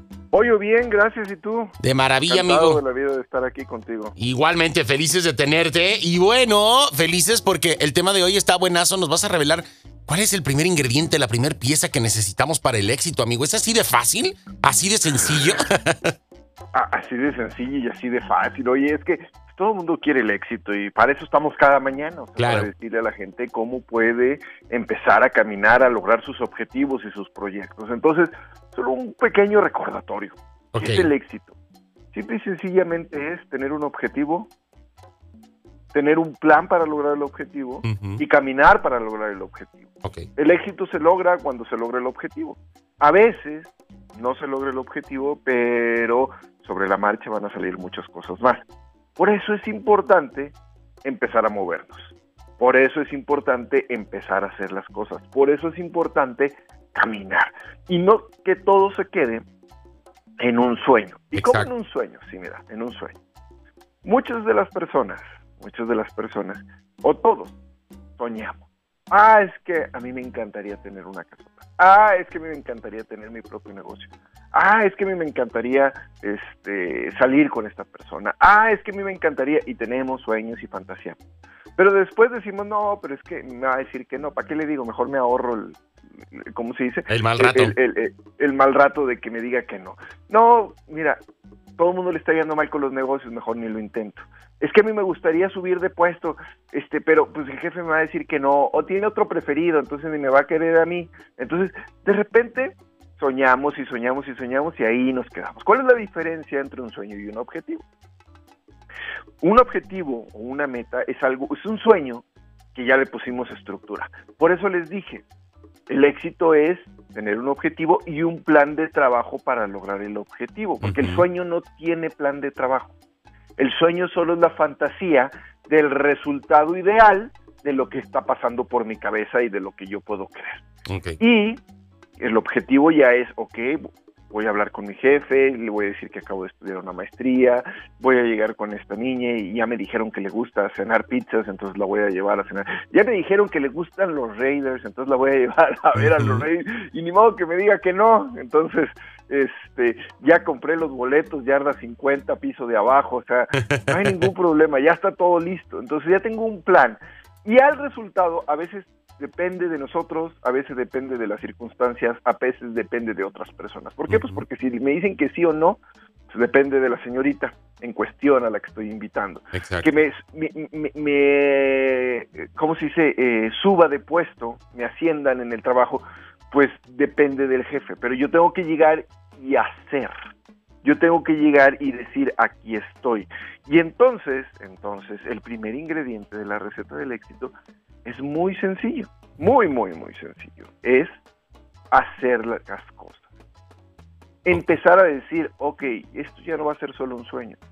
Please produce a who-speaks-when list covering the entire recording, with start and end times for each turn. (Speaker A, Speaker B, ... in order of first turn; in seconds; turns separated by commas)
Speaker A: 0.3-1.7, Speaker B: 1.8-2.8, Speaker A: 2.3-4.1, Speaker B: 4.2-16.1, Speaker A: 16.7-31.5, Speaker B: 22.4-22.7, Speaker B: 30.7-31.1, Speaker A: 32.1-34.5, Speaker A: 35.9-48.6, Speaker B: 37.8-38.2, Speaker A: 49.2-59.4, Speaker A: 60.4-63.1, Speaker B: 61.4-61.7, Speaker A: 64.0-67.5, Speaker A: 68.2-81.2, Speaker A: 81.8-85.8, Speaker A: 86.3-91.2, Speaker B: 87.1-87.7, Speaker A: 91.8-107.8, Speaker A: 109.4-115.2, Speaker A: 115.9-122.9, Speaker B: 120.8-121.2, Speaker A: 123.6-130.6, Speaker B: 130.9-131.2, Speaker A: 131.2-131.6, Speaker A: 132.2-180.1, Speaker B: 145.9-146.4, Speaker B: 153.7-154.2, Speaker B: 164.1-164.4, Speaker B: 169.5-169.9, Speaker A: 180.8-187.5, Speaker A: 188.0-191.2, Speaker A: 191.9-193.2, Speaker A: 194.4-197.6